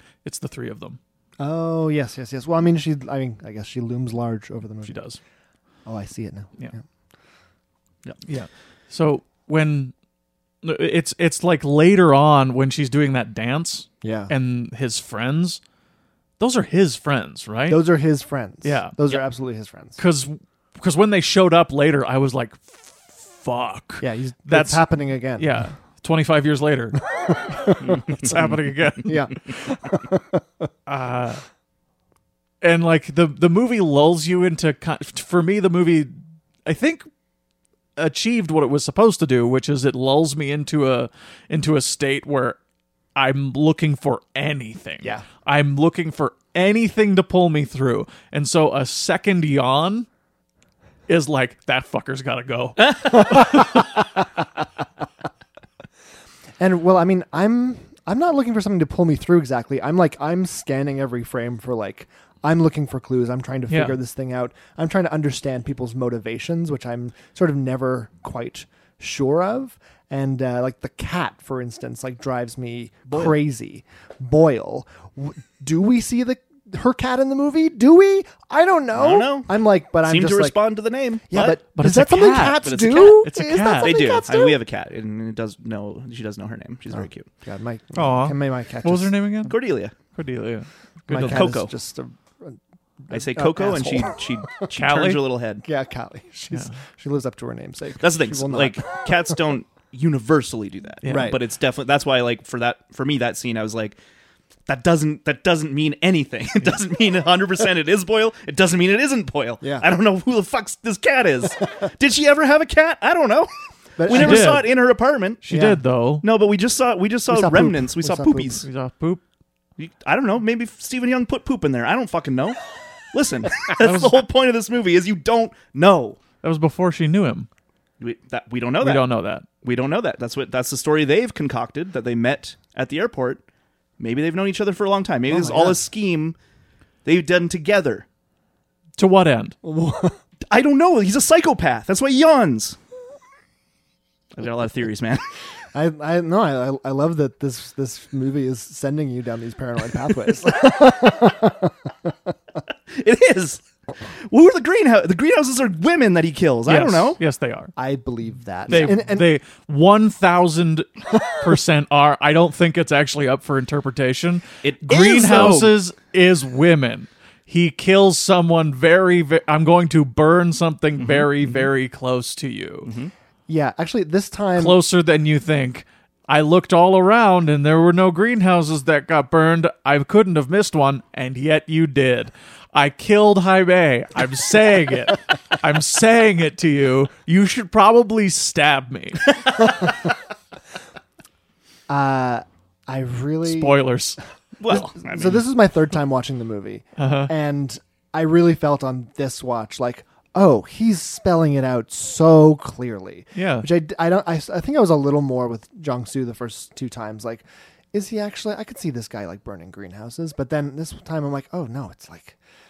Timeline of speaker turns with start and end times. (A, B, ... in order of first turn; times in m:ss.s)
0:00.2-0:01.0 A
0:01.4-0:05.0 B
0:04.8-0:05.2 A
0:05.9-0:06.8 B
0:08.2-0:09.9 A
0:10.6-0:15.6 A
0:14.0-0:14.3 B
0:16.4-0:17.8 A
0:17.7-0:20.0 B
0:18.6-0:19.2 A
0:20.0-0:29.4 A
0:24.0-0:25.5 B
0:27.1-0:28.4 B
0:27.8-0:28.6 C
0:29.0-0:30.7 B
0:30.9-0:31.4 A
0:32.6-0:36.1 A
0:36.6-0:37.0 A
0:38.0-0:42.6 A
0:43.2-0:50.1 A
0:51.1-0:53.8 A
0:53.2-0:53.9 B
0:56.6-1:20.6 B
1:03.7-1:04.0 A
1:18.9-1:19.5 C
1:20.0-1:21.6 C
1:21.3-1:24.6 B
1:21.8-1:24.2 A
1:22.6-1:23.3 C
1:23.8-1:27.3 C
1:26.9-1:29.1 B
1:28.0-1:31.5 A
1:29.5-1:30.0 C
1:31.1-1:34.5 B
1:31.2-1:31.7 C
1:33.1-1:35.6 C
1:34.7-1:35.2 A
1:35.6-1:39.3 B
1:38.0-1:44.0 C
1:41.0-1:41.4 A
1:41.1-1:41.4 B
1:44.7-1:55.4 C
1:49.6-1:49.9 B
1:54.0-1:54.6 B
1:54.1-1:54.7 A
1:55.4-1:56.2 A
1:55.5-1:55.8 B
1:56.2-1:58.6 C
1:57.3-1:58.6 B
1:58.6-1:59.2 A
1:59.8-2:02.6 C
2:03.1-2:06.2 C
2:03.8-2:04.2 A
2:06.4-2:07.5 A
2:08.0-2:09.0 C
2:08.8-2:09.4 A
2:09.6-2:13.4 C
2:14.0-2:16.4 C
2:15.3-2:15.8 B
2:17.0-2:18.1 C
2:19.0-2:19.6 A
2:19.6-2:20.2 B
2:20.5-2:22.8 C
2:24.4-2:25.2 C
2:25.7-2:32.2 B
2:32.9-2:33.6 C
2:34.3-2:37.2 C
2:36.7-2:37.7 A
2:37.8-2:39.3 B
2:38.7-2:52.9 A
2:44.6-2:45.7 C
2:51.0-2:51.7 C
2:52.8-2:53.1 C
2:53.5-2:54.8 B
2:54.6-3:09.8 A
3:11.9-3:13.8 B
3:13.4-3:14.2 A
3:14.6-3:15.4 C
3:14.7-3:32.4 B
3:17.0-3:17.3 A
3:23.4-3:23.7 A